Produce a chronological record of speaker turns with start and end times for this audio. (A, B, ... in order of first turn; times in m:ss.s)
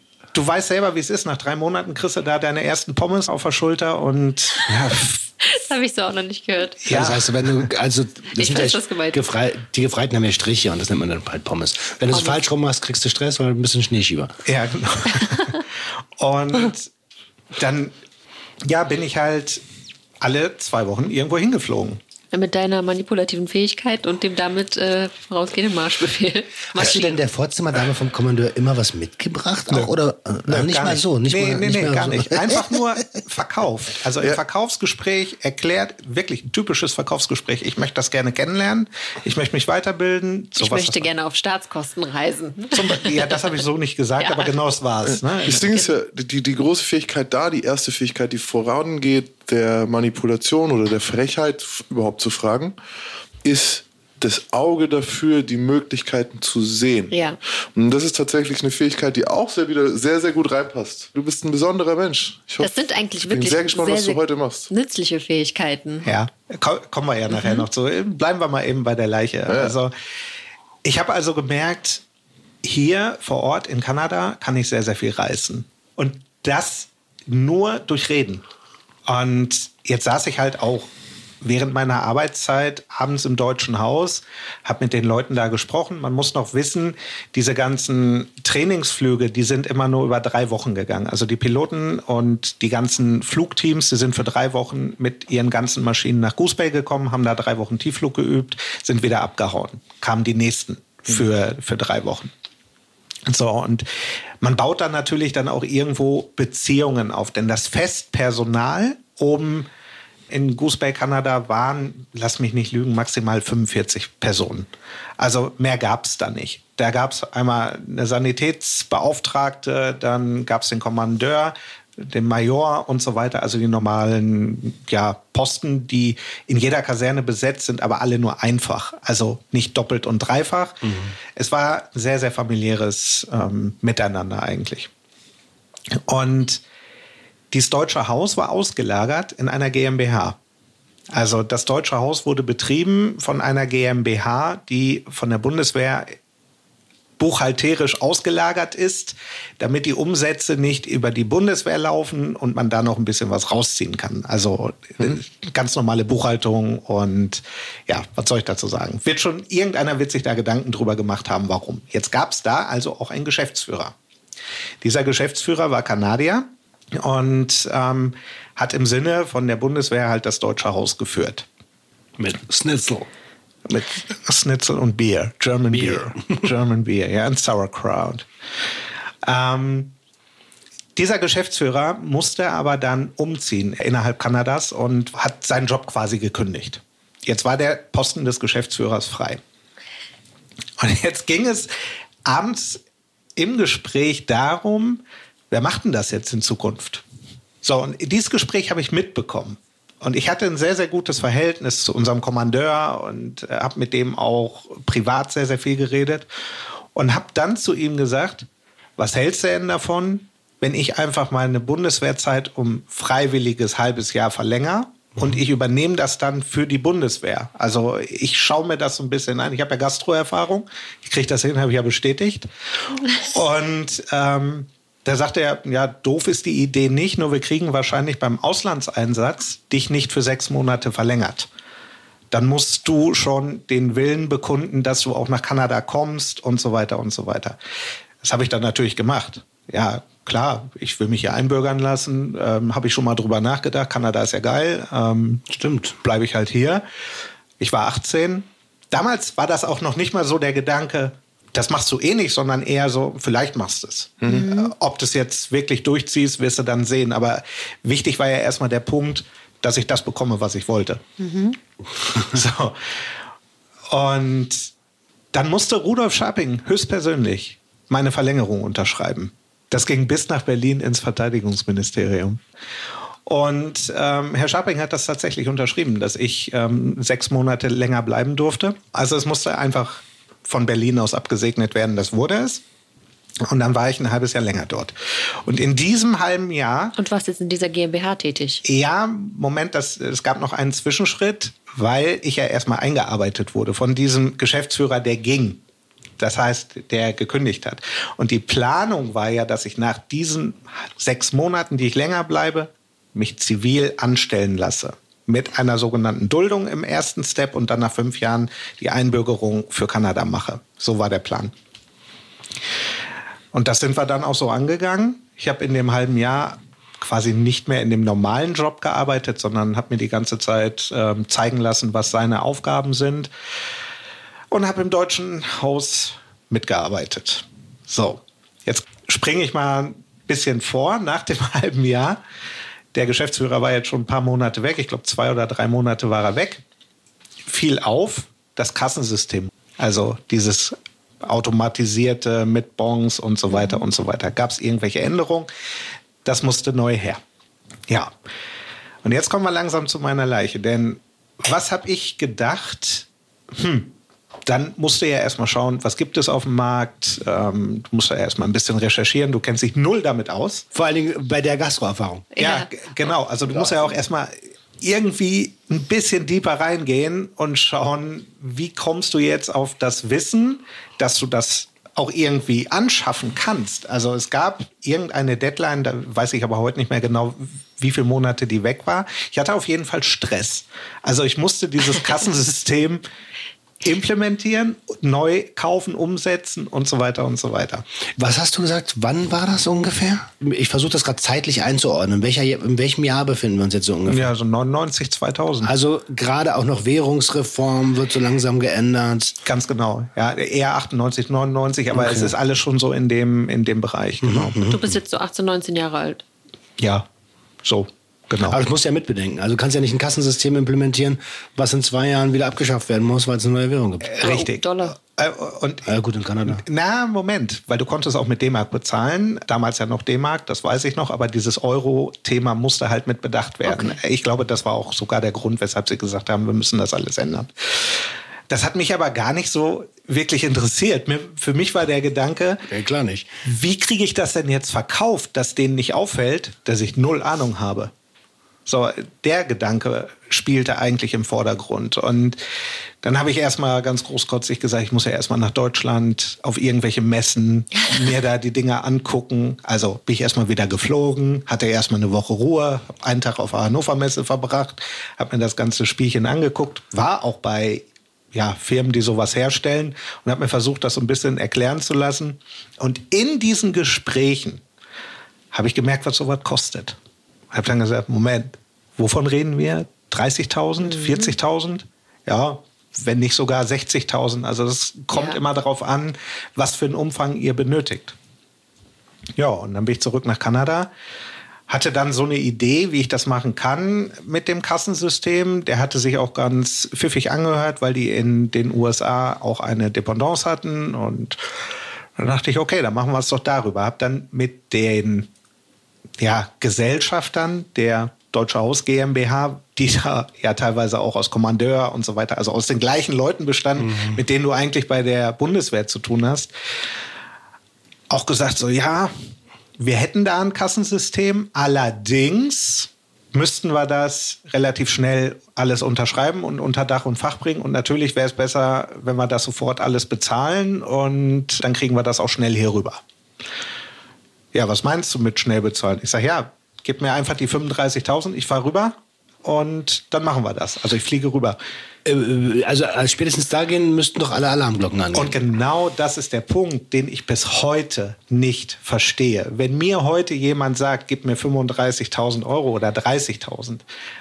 0:00.3-0:05.2 A
0:05.4-0:06.8 B
0:06.8-0:07.6 A
0:06.9-0:14.3 C
0:08.3-0:09.2 B
0:14.4-0:15.6 A
0:15.2-0:15.5 B
0:16.2-0:16.9 A
0:17.5-0:17.9 A
0:18.6-0:19.6 A
0:20.2-0:22.0 A
0:22.3-0:27.1 B
0:26.7-0:32.8 C
0:30.4-0:41.1 A
0:40.6-0:43.4 B
0:42.7-0:45.7 A
0:44.2-0:44.5 B
0:45.1-0:52.8 D
0:53.4-0:57.2 D
0:57.1-0:57.4 B
0:57.7-1:02.7 D
1:02.6-1:06.1 B
1:03.2-1:04.7 D
1:06.0-1:09.9 A
1:07.3-1:07.6 B
1:09.5-1:09.7 D
1:10.8-1:12.0 A
1:12.6-1:18.4 A
1:19.0-1:20.9 A
1:21.4-1:42.3 A
1:43.2-1:43.8 A
1:44.4-1:49.7 A
1:50.3-2:14.9 A
2:10.8-2:11.1 C
2:16.1-2:16.6 A
2:17.5-2:20.4 A
2:21.1-2:26.1 A
2:27.2-2:43.9 A
2:44.8-2:51.4 A
2:52.2-2:53.1 C
2:53.6-2:58.2 A
2:55.7-2:56.1 C
2:59.2-2:59.9 A
3:01.0-3:09.4 A
3:10.8-3:11.7 A
3:12.2-3:12.8 A
3:13.4-3:17.0 A
3:17.6-3:26.2 A
3:26.9-3:28.5 A
3:29.0-3:42.5 A
3:43.1-3:51.5 A
3:52.3-3:57.6 A
3:58.2-4:05.4 A
4:05.5-4:06.0 C
4:06.0-4:06.8 A
4:07.6-4:21.0 A
4:14.2-4:14.7 B
4:21.2-4:21.6 B
4:22.1-4:22.8 A
4:23.9-4:24.7 A
4:25.3-4:32.4 A
4:33.2-4:42.6 A
4:43.4-4:44.9 A
4:45.4-4:47.0 A
4:47.0-4:48.6 B
4:48.6-4:55.6 A
4:56.2-5:11.5 A
5:13.5-5:23.3 A
5:24.5-5:32.2 A
5:32.9-5:36.6 A
5:37.5-5:45.5 A
5:46.2-5:47.2 A
5:47.9-5:48.1 A
5:49.0-5:53.9 A
5:54.4-6:00.6 A
6:00.7-6:02.3 C
6:02.3-6:02.7 B
6:02.4-6:23.0 A
6:23.8-6:27.8 A
6:28.2-6:34.3 C
6:34.1-6:35.7 A
6:35.6-6:39.4 C
6:39.4-6:44.6 A
6:41.9-6:42.4 C
6:44.2-6:44.9 C
6:44.6-6:46.2 B
6:46.8-6:47.0 A
6:47.6-6:48.6 A
6:48.4-6:54.1 C
6:54.1-7:12.6 A
6:54.2-6:55.0 B
6:55.8-6:56.6 C
7:03.6-7:04.0 B
7:12.7-7:13.3 C
7:13.4-7:17.9 A
7:18.6-7:22.4 A
7:23.0-7:44.6 A
7:45.5-7:47.0 A
7:47.5-7:58.2 A
7:50.8-7:51.3 B
7:55.1-7:55.4 B
7:59.4-8:00.9 A
8:01.7-8:11.4 A
8:12.2-8:15.3 A
8:16.2-8:26.5 A
8:23.8-8:24.2 C
8:28.1-8:29.1 A
8:29.8-8:43.0 A
8:44.5-8:51.6 A
8:52.0-8:55.4 C
8:55.1-9:03.8 A